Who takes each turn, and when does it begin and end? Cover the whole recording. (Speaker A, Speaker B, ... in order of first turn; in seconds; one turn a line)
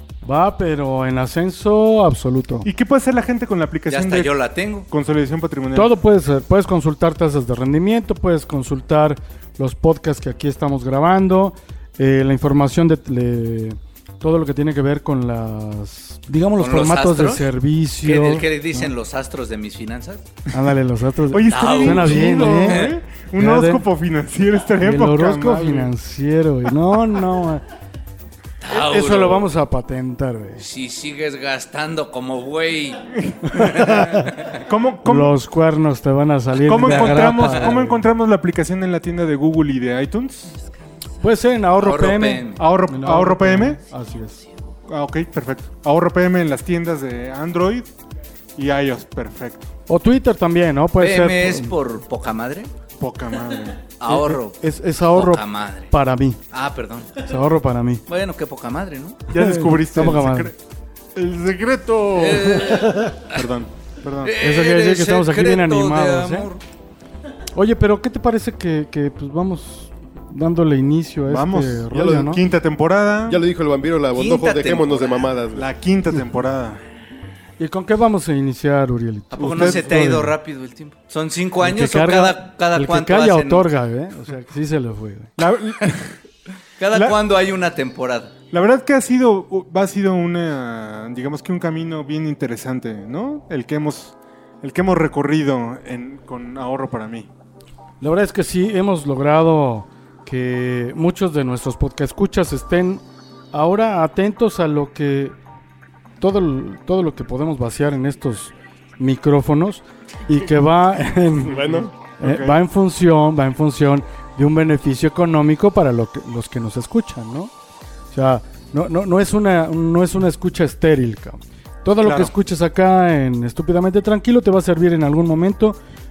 Speaker A: 0.2-2.7
Speaker B: 2.6-4.3
Speaker C: 3.9-4.9
Speaker B: 4.9-5.9
Speaker A: 5.7-18.9
Speaker C: 16.6-17.5
Speaker C: 18.0-20.2
Speaker A: 20.5-23.9
Speaker B: 21.3-25.9
Speaker C: 21.5-22.9
Speaker A: 24.8-27.6
Speaker C: 28.6-29.5
Speaker A: 28.7-30.6
Speaker C: 30.6-33.1
Speaker A: 33.5-34.3
Speaker C: 33.6-34.6
Speaker B: 34.5-35.3
Speaker A: 35.0-38.0
Speaker B: 36.6-40.5
Speaker C: 36.8-37.7
Speaker A: 41.2-44.4
Speaker C: 41.8-42.6
Speaker B: 42.6-43.8
Speaker B: 44.9-47.9
Speaker B: 48.5-49.7
Speaker A: 49.9-51.8
Speaker C: 51.0-52.7
Speaker B: 53.0-53.8
Speaker C: 54.0-54.6
Speaker A: 54.1-56.4
Speaker C: 55.1-55.9
Speaker C: 56.5-57.2
Speaker A: 57.2-58.0
Speaker C: 58.1-59.3
Speaker B: 59.3-60.5
Speaker A: 59.3-60.5
Speaker B: 61.1-64.3
Speaker C: 62.1-63.5
Speaker A: 62.6-63.1
Speaker C: 64.2-66.6
Speaker A: 64.4-66.5
Speaker A: 67.5-72.4
Speaker B: 71.3-73.4
Speaker D: 71.9-72.4
Speaker D: 73.2-75.7
Speaker C: 74.1-75.3
Speaker B: 75.5-76.8
Speaker A: 77.6-80.3
Speaker C: 79.3-83.6
Speaker B: 79.4-80.2
Speaker A: 81.6-85.3
Speaker B: 85.4-86.1
Speaker C: 86.8-88.3
Speaker B: 88.5-97.3
Speaker A: 98.0-105.3
Speaker A: 106.2-117.5
Speaker D: 111.4-111.9
Speaker B: 112.2-112.6
Speaker A: 118.1-125.8
Speaker B: 122.0-122.3